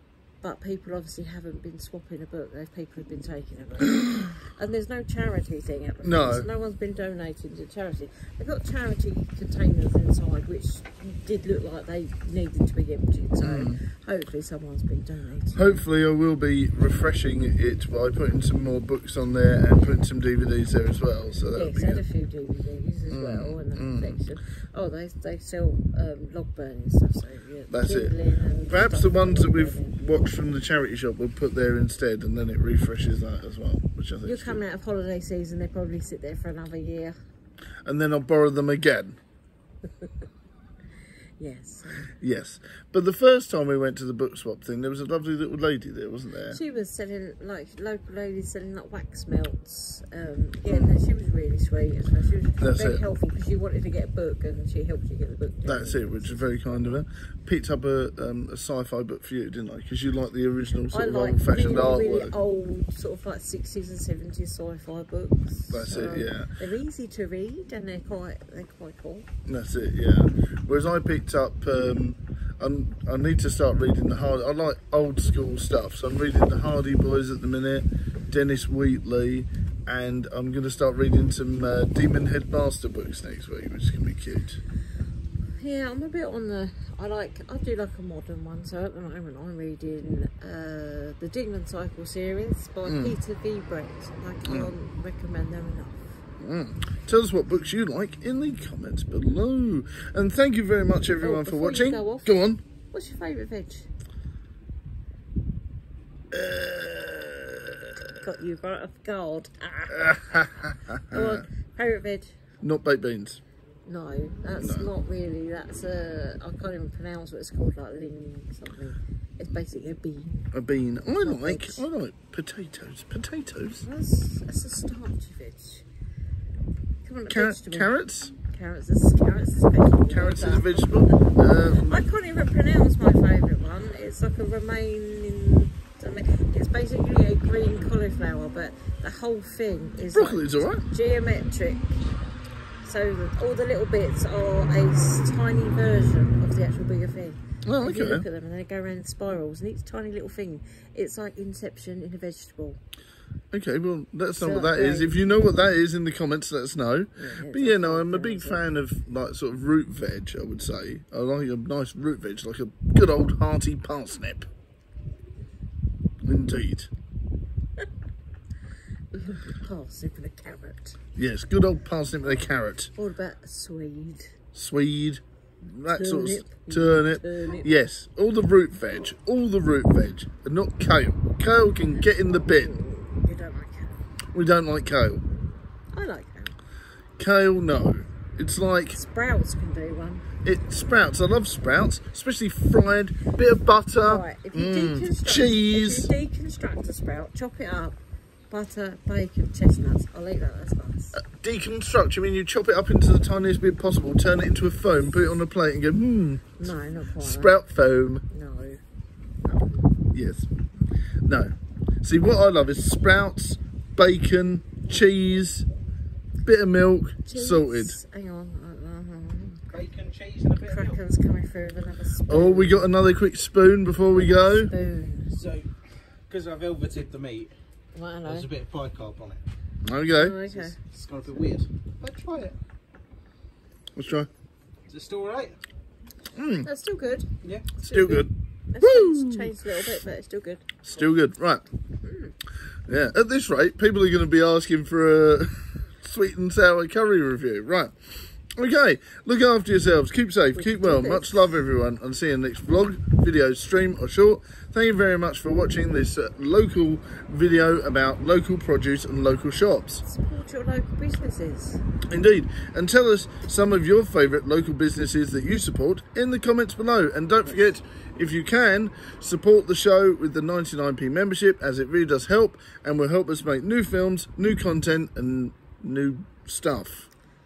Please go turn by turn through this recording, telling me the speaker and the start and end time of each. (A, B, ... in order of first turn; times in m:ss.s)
0:00.4-0:15.8 A
0:03.9-0:04.3 B
0:06.0-0:06.5 B
0:13.4-0:13.8 B
0:15.5-0:22.0 B
0:21.5-0:30.0 A
0:23.1-0:24.2 B
0:27.7-0:28.1 B
0:28.7-0:34.6 B
0:34.2-0:37.1 A
0:37.8-0:39.2 B
0:41.4-0:42.1 A
0:42.2-0:46.6 B
0:46.5-0:57.0 A
0:50.7-0:51.0 B
0:52.6-0:53.0 B
0:55.6-1:02.3 B
1:00.9-1:09.3 A
1:05.7-1:06.5 B
1:09.5-1:24.6 B
1:25.6-1:36.2 A
1:32.8-1:33.2 B
1:34.4-1:34.7 B
1:36.4-1:42.6 B
1:41.2-1:42.4 A
1:42.9-1:43.9 A
1:46.3-1:48.1 B
1:48.2-1:52.4 A
1:49.9-1:51.4 B
1:52.6-1:53.4 B
1:53.8-2:00.5 A
1:54.6-1:54.9 B
2:00.5-2:03.8 B
2:01.2-2:01.8 A
2:03.8-2:05.8 A
2:07.0-2:22.0 A
2:07.3-2:08.3 B
2:10.1-2:12.0 B
2:20.1-2:20.8 B
2:22.8-2:32.8 A
2:27.6-2:28.2 B
2:33.5-2:44.5 B
2:34.4-2:35.3 A
2:37.2-2:38.6 A
2:46.2-2:46.9 B
2:49.1-2:51.0 A
2:51.2-2:52.9 B
2:53.0-2:54.4 A
2:54.5-3:02.7 B
2:55.9-2:57.7 A
3:02.3-3:04.0 A
3:04.3-3:05.2 B
3:05.9-3:06.6 A
3:07.2-3:09.0 B
3:08.9-3:10.3 A
3:10.4-3:16.1 B
3:14.0-3:18.0 A
3:18.5-3:21.2 A
3:21.1-3:28.2 B
3:26.6-3:27.6 A
3:28.3-3:28.8 A
3:29.5-3:29.8 A
3:30.1-3:30.5 B
3:31.2-3:35.6 B
3:36.4-3:38.0 B
3:37.2-3:39.7 A
3:39.7-3:41.0 C
3:40.6-3:42.9 A
3:42.3-3:44.7 B
3:44.1-3:45.4 A
3:45.4-3:45.7 C
3:46.3-3:47.5 C
3:47.9-3:48.5 A
3:48.2-3:49.4 C
3:49.8-3:50.4 B
3:50.1-3:50.8 A
3:50.5-3:52.6 C
3:53.9-3:54.3 B
3:54.9-3:55.6 C
3:56.3-3:56.7 B
3:56.6-4:00.8 A
3:57.4-3:57.7 C
3:57.8-3:59.8 B
4:00.8-4:01.6 B
4:02.0-4:02.3 A
4:02.9-4:07.9 B
4:08.6-4:20.0 B
4:10.5-4:11.6 A
4:20.0-4:21.8 A
4:22.1-4:37.1 B
4:27.4-4:27.7 A